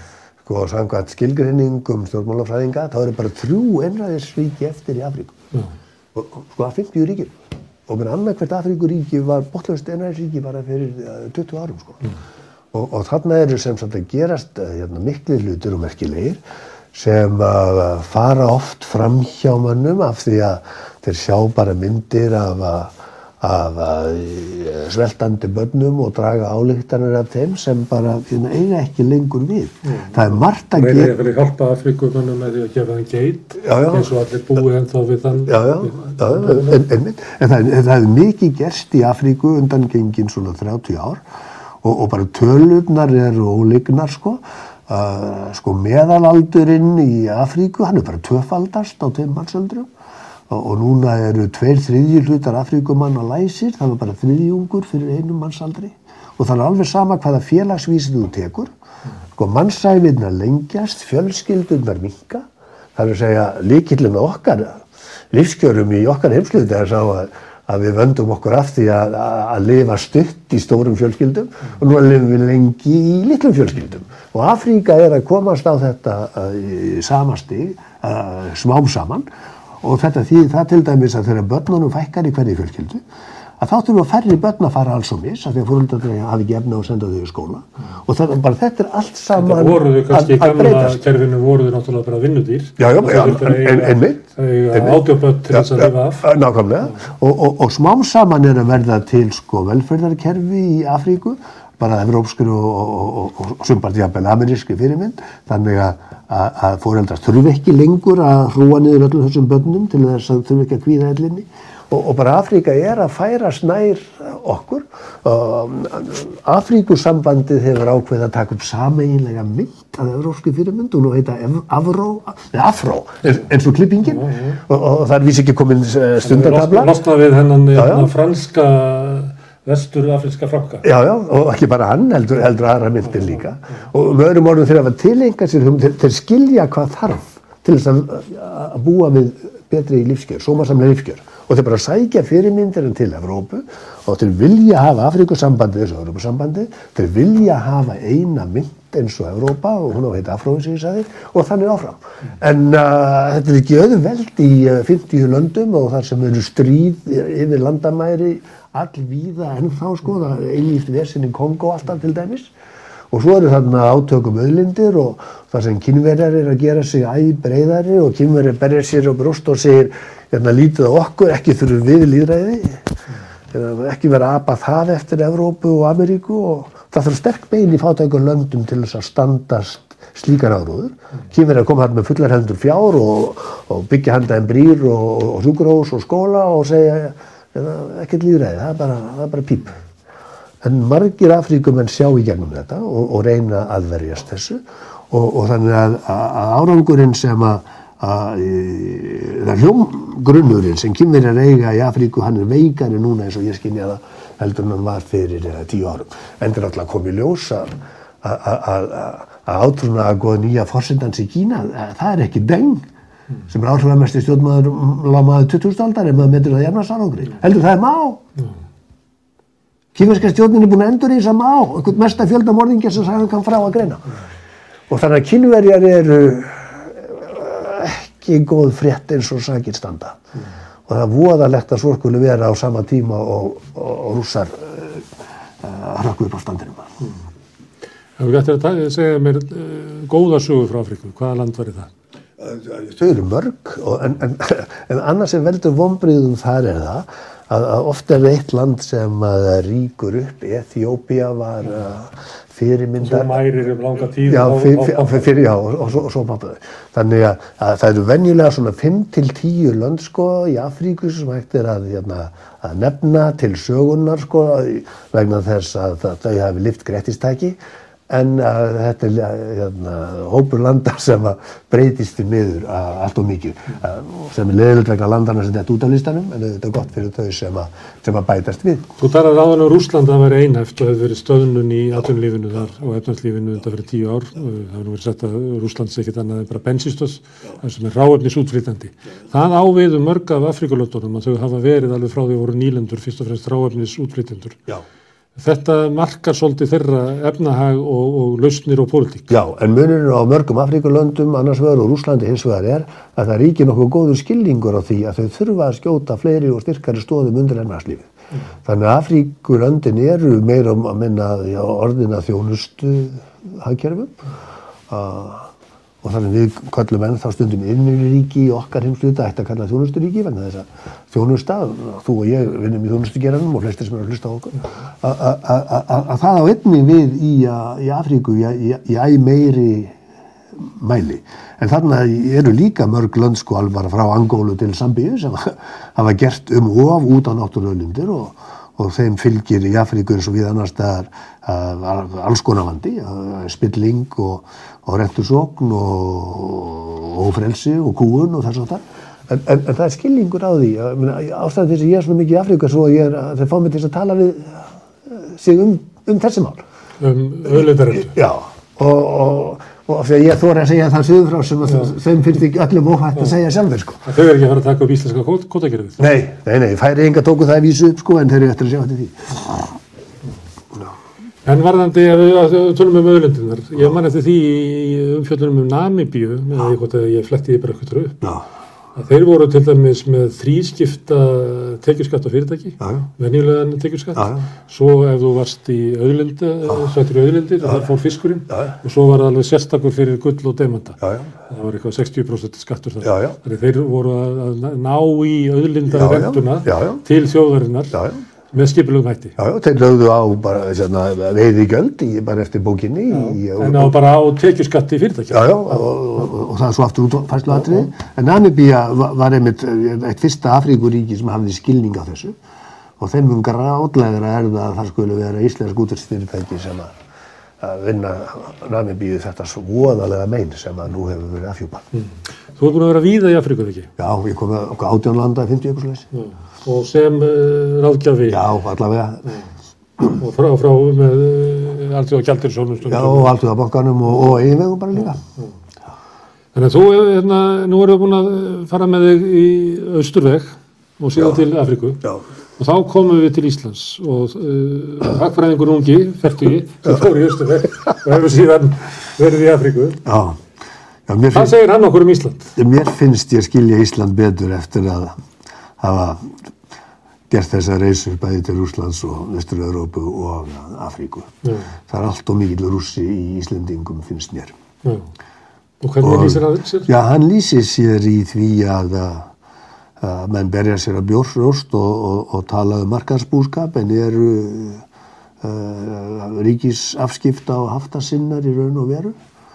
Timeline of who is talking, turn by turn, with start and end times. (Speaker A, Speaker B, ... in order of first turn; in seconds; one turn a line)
Speaker A: 0.5-5.4
Speaker A: 6.2-12.0
Speaker A: 12.7-16.4
Speaker A: 16.9-31.1
Speaker B: 29.9-36.8
Speaker A: 33.6-34.1
Speaker A: 35.4-41.2
Speaker A: 41.8-49.9
Speaker A: 50.5-58.7
Speaker A: 59.4-79.3
Speaker A: 79.8-83.0
Speaker A: 83.6-91.0
Speaker B: 89.3-96.3
Speaker A: 92.8-126.9
Speaker B: 124.0-124.6
Speaker B: 126.2-130.9
Speaker A: 127.7-128.1
Speaker A: 130.8-162.5
Speaker A: 163.1-189.8
Speaker A: 190.6-212.9
Speaker A: 213.5-218.2
Speaker A: 219.9-224.1
Speaker A: 224.9-230.2
Speaker A: 230.9-235.1
Speaker A: 235.6-237.0
Speaker B: 238.2-241.9
Speaker A: 242.4-253.4
Speaker B: 253.0-255.3
Speaker A: 254.3-267.6
Speaker A: 268.1-278.9
Speaker B: 279.0-294.6
Speaker B: 295.4-299.4
Speaker A: 299.3-308.1
Speaker A: 308.6-314.2
Speaker A: 314.9-330.0
Speaker A: 330.5-356.6
Speaker B: 357.0-358.2
Speaker A: 358.0-364.0
Speaker B: 364.1-366.0
Speaker A: 366.0-369.8
Speaker B: 371.4-378.3
Speaker B: 379.0-398.0
Speaker A: 382.8-383.1
Speaker A: 384.2-384.5
Speaker A: 388.5-388.8
Speaker A: 391.0-391.3
Speaker A: 393.0-393.4
Speaker A: 395.9-397.0
Speaker A: 397.9-398.2
Speaker B: 398.5-399.4
Speaker A: 399.4-404.0
Speaker B: 403.1-405.8
Speaker A: 405.3-412.3
Speaker A: 413.0-416.9
Speaker A: 417.6-421.9
Speaker B: 421.9-423.9
Speaker A: 424.0-426.1
Speaker B: 426.1-428.4
Speaker A: 428.3-429.4
Speaker B: 430.1-433.3
Speaker A: 432.9-435.2
Speaker B: 436.5-442.1
Speaker B: 442.6-450.0
Speaker A: 450.1-450.4
Speaker A: 451.1-451.6
Speaker B: 451.3-452.5
Speaker A: 452.6-455.1
Speaker A: 455.8-456.4
Speaker A: 457.3-461.3
Speaker B: 461.4-461.7
Speaker A: 461.9-464.5
Speaker B: 465.8-466.9
Speaker A: 466.0-469.3
Speaker A: 470.0-474.8
Speaker A: 475.4-479.2